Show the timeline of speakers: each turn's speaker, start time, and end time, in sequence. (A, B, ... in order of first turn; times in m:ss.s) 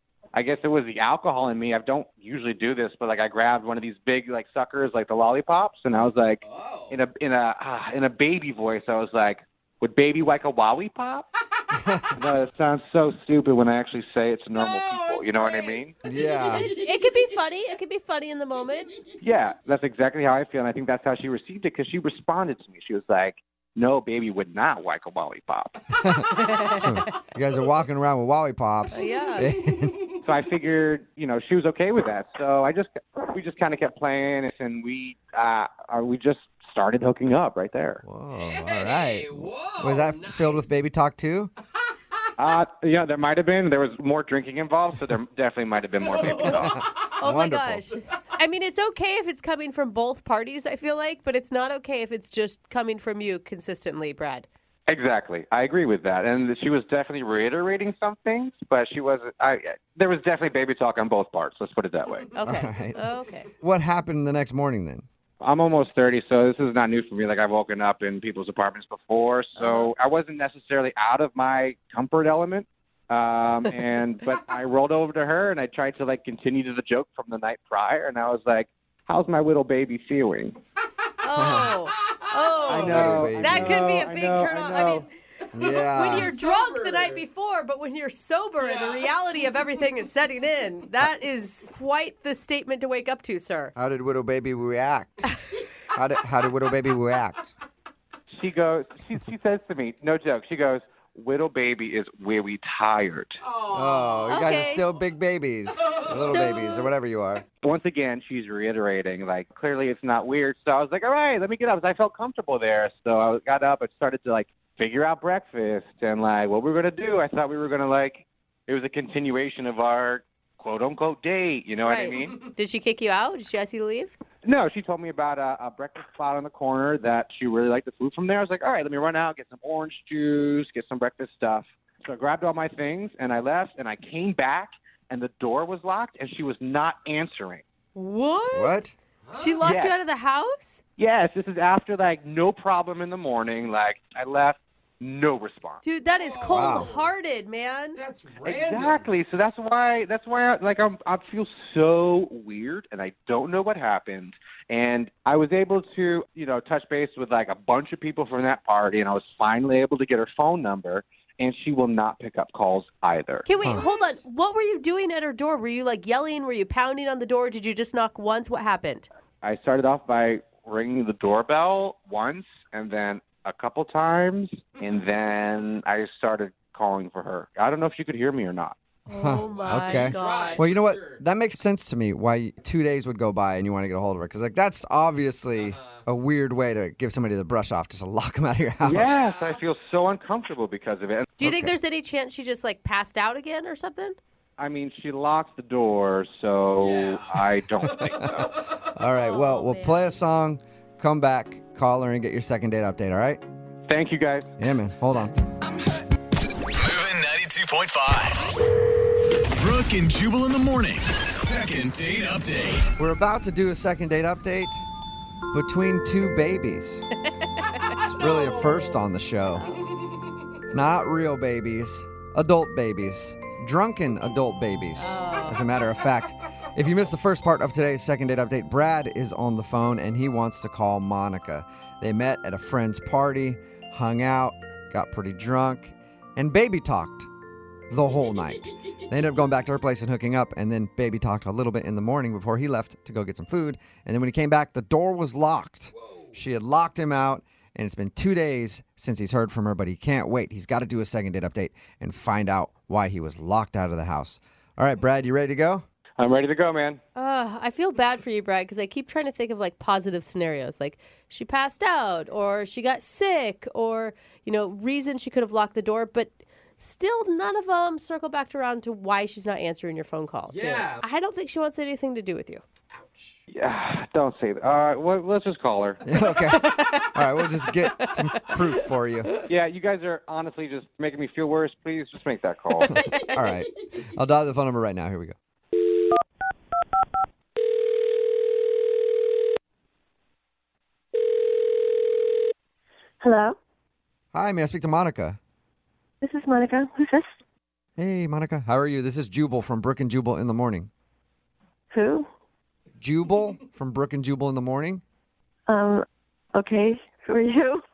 0:00.3-0:11.3 A
0:06.4-0:07.0 B
0:12.2-0:15.9 A
0:14.5-0:17.4 B
0:16.1-0:16.7 C
0:16.5-0:18.9 D
0:19.2-0:25.8 A
0:26.0-0:30.0 C
0:26.4-0:27.0 D
0:28.9-0:29.5 D
0:29.4-0:30.3 B
0:30.2-0:38.0 A
0:38.0-0:41.5 C
0:38.3-0:40.7 B
0:42.4-0:46.8 A
0:46.0-0:47.1 B
0:46.4-0:47.9 C
0:47.2-0:54.5 D
0:54.9-1:02.3 A
1:02.4-1:03.5 D
1:02.4-1:03.0 C
1:03.6-1:05.0 C
1:05.4-1:20.6 A
1:09.6-1:09.9 D
1:21.2-1:25.1 D
1:21.4-1:21.8 C
1:21.9-1:23.3 B
1:22.7-1:25.0 A
1:22.7-1:23.9 C
1:25.5-1:27.2 B
1:25.5-1:26.3 C
1:25.9-1:33.7 D
1:28.6-1:29.9 B
1:33.8-1:35.3 C
1:35.9-1:37.5 C
1:38.3-1:43.4 A
1:43.4-1:44.3 B
1:43.7-1:47.4 C
1:44.3-1:44.8 D
1:45.8-1:46.3 B
1:46.2-1:46.9 D
1:47.6-2:02.4 A
2:01.8-2:04.2 D
2:04.4-2:17.6 A
2:18.0-2:18.8 D
2:18.5-2:18.9 C
2:19.2-2:19.7 B
2:19.4-2:20.8 D
2:19.6-2:20.0 A
2:21.0-2:25.8 A
2:25.8-2:28.0 D
2:26.1-2:27.1 B
2:26.5-2:26.9 C
2:28.0-2:29.1 B
2:28.4-2:43.5 A
2:43.5-2:49.1 D
2:49.4-2:58.8 A
2:59.1-3:00.6 D
2:59.1-3:09.2 C
2:59.3-3:01.2 B
3:05.6-3:06.0 B
3:08.8-3:11.3 A
3:09.0-3:09.6 B
3:11.4-3:14.2 D
3:11.4-3:11.8 C
3:14.6-3:18.6 A
3:16.8-3:18.9 B
3:17.8-3:18.3 C
3:19.0-3:23.4 C
3:19.1-3:20.2 D
3:23.9-3:24.5 A
3:24.6-3:25.4 C
3:26.7-3:28.4 E
3:29.6-3:32.9 E
3:33.0-3:34.8 C
3:35.5-3:37.1 C
3:37.4-3:38.0 D
3:38.0-3:39.0 B
3:38.1-3:39.7 C
3:39.5-3:39.8 D
3:39.8-3:40.6 B
3:40.7-3:57.3 C
3:45.0-3:45.6 D
3:57.9-4:15.8 C
4:05.9-4:06.4 B
4:16.2-4:17.0 A
4:17.2-4:32.6 D
4:30.5-4:31.1 B
4:32.9-4:33.4 B
4:33.5-4:36.0 A
4:36.0-4:39.3 C
4:36.5-4:38.6 D
4:39.5-4:42.9 A
4:42.8-4:43.3 D
4:42.9-4:45.4 C
4:53.2-4:53.6 F
4:54.3-4:55.4 C
4:56.2-4:57.3 F
4:58.0-5:00.9 C
5:01.9-5:02.3 F
5:03.0-5:05.0 C
5:05.7-5:07.8 F